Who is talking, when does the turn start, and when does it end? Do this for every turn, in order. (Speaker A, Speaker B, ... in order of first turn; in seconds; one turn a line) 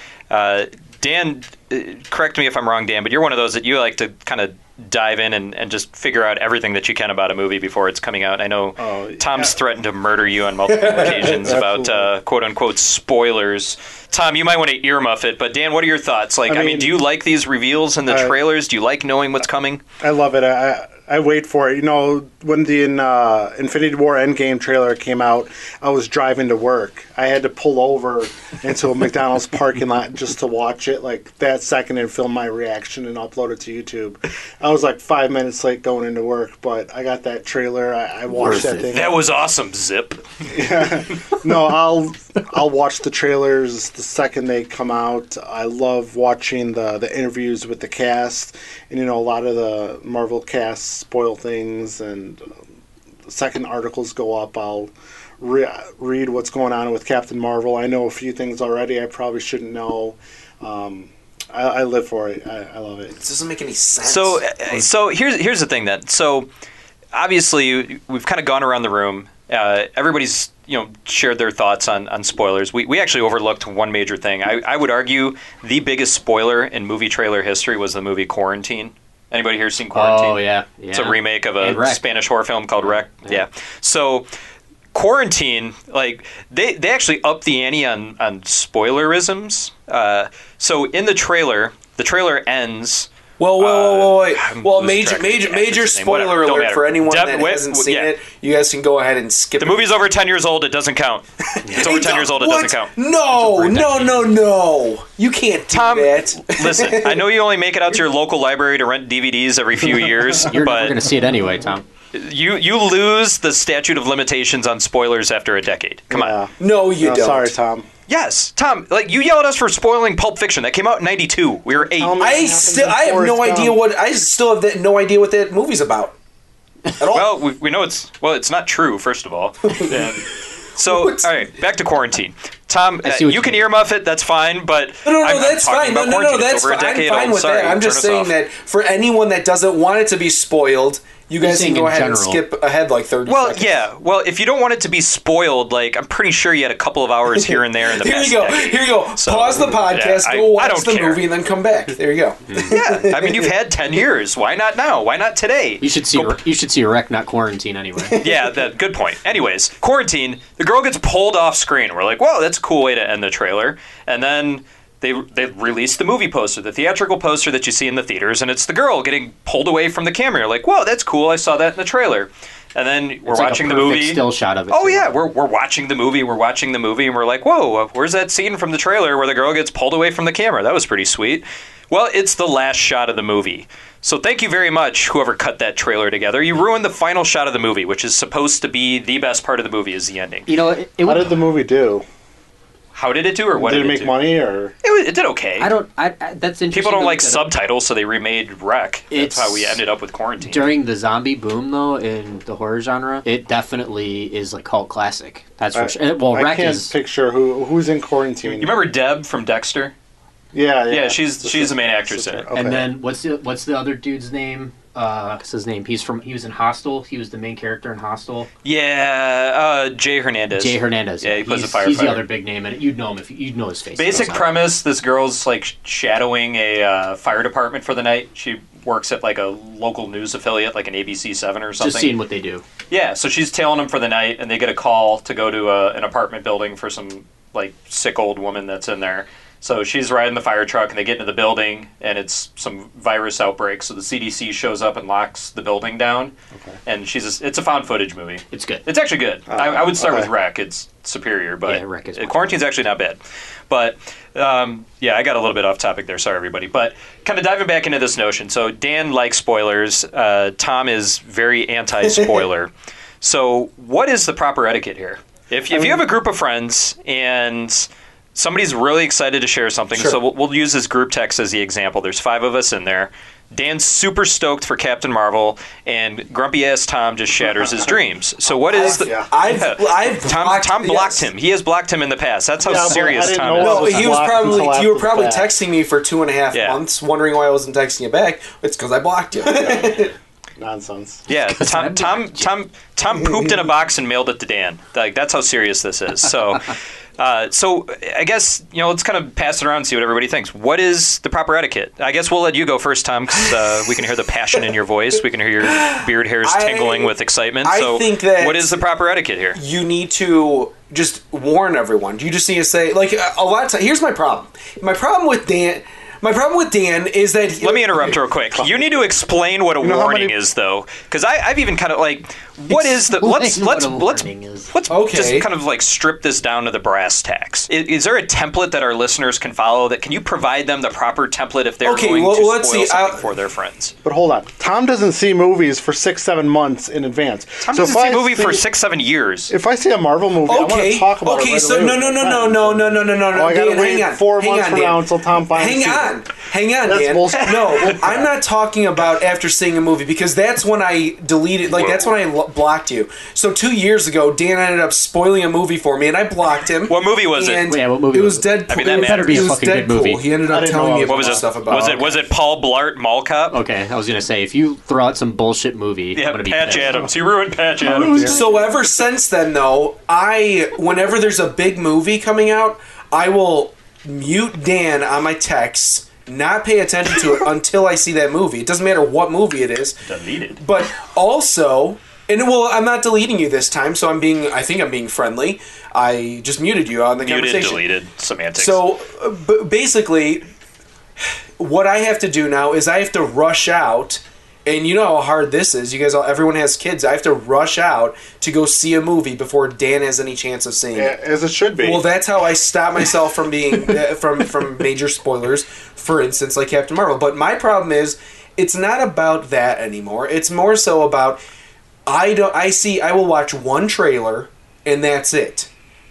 Speaker A: 0.3-19.8
Speaker B: 8.8-9.5
Speaker C: 10.7-11.4
Speaker B: 10.8-12.1
Speaker B: 16.4-16.9
Speaker B: 18.1-18.4
Speaker B: 20.0-39.2
Speaker D: 38.4-38.9
Speaker A: 38.9-40.2
Speaker B: 40.5-52.5
Speaker B: 53.2-63.1
Speaker C: 63.2-64.8
Speaker A: 64.0-66.5
Speaker A: 67.1-84.3
Speaker D: 79.9-82.0
Speaker D: 82.8-83.4
Speaker A: 84.9-98.1
Speaker C: 93.4-99.9
Speaker A: 99.6-102.9
Speaker C: 101.7-107.2
Speaker D: 103.3-104.3
Speaker A: 105.7-111.0
Speaker D: 110.4-111.8
Speaker A: 112.1-116.3
Speaker B: 116.1-117.9
Speaker C: 116.6-117.5
Speaker A: 118.1-122.2
Speaker B: 121.8-123.8
Speaker C: 122.2-126.1
Speaker C: 127.0-127.2
Speaker A: 127.1-138.3
Speaker C: 130.9-131.2
Speaker D: 133.0-133.7
Speaker C: 135.0-143.8
Speaker D: 141.4-142.4
Speaker A: 143.2-151.2
Speaker C: 147.3-153.5
Speaker A: 152.7-156.4
Speaker D: 155.8-158.2
Speaker A: 158.2-190.5
Speaker D: 173.2-175.1
Speaker D: 190.5-191.4
Speaker B: 191.0-192.0
Speaker A: 192.9-194.2
Speaker B: 193.5-194.7
Speaker A: 194.8-195.7
Speaker D: 195.6-197.5
Speaker A: 196.7-200.7
Speaker D: 199.1-199.8
Speaker D: 200.4-206.9
Speaker B: 205.7-208.8
Speaker A: 208.5-209.9
Speaker B: 210.5-212.9
Speaker A: 210.9-212.4
Speaker D: 212.5-218.5
Speaker A: 218.6-222.2
Speaker D: 220.5-224.5
Speaker A: 223.9-232.1
Speaker D: 231.8-232.6
Speaker A: 232.9-246.3
Speaker A: 246.8-253.2
Speaker D: 248.5-248.8
Speaker B: 249.5-250.3
Speaker D: 251.7-252.5
Speaker A: 253.7-262.7
Speaker A: 263.2-284.2
Speaker B: 277.4-277.9
Speaker B: 278.4-279.3
Speaker C: 278.7-281.2
Speaker B: 282.6-285.5
Speaker C: 283.6-290.1
Speaker A: 286.5-286.8
Speaker B: 289.4-291.2
Speaker A: 291.3-309.6
Speaker D: 291.3-292.5
Speaker C: 305.6-308.8
Speaker C: 309.6-318.2
Speaker A: 317.6-333.9
Speaker B: 318.5-319.0
Speaker B: 319.8-320.3
Speaker D: 322.7-324.7
Speaker C: 324.9-325.5
Speaker C: 331.8-333.2
Speaker B: 334.0-338.6
Speaker A: 337.6-339.5
Speaker B: 339.5-346.3
Speaker C: 340.4-345.0
Speaker C: 345.5-362.1
Speaker B: 346.8-348.3
Speaker A: 351.7-352.1
Speaker A: 356.9-357.7
Speaker D: 357.7-360.2
Speaker A: 358.7-359.6
Speaker B: 360.5-362.0
Speaker A: 361.1-363.6
Speaker D: 363.5-367.0
Speaker A: 366.1-368.4
Speaker B: 367.8-368.5
Speaker C: 368.3-380.0
Speaker A: 380.1-380.6
Speaker C: 380.6-387.8
Speaker A: 387.2-388.8
Speaker C: 388.6-390.5
Speaker C: 391.6-401.1
Speaker B: 400.9-402.0
Speaker C: 401.8-411.4
Speaker C: 412.1-415.7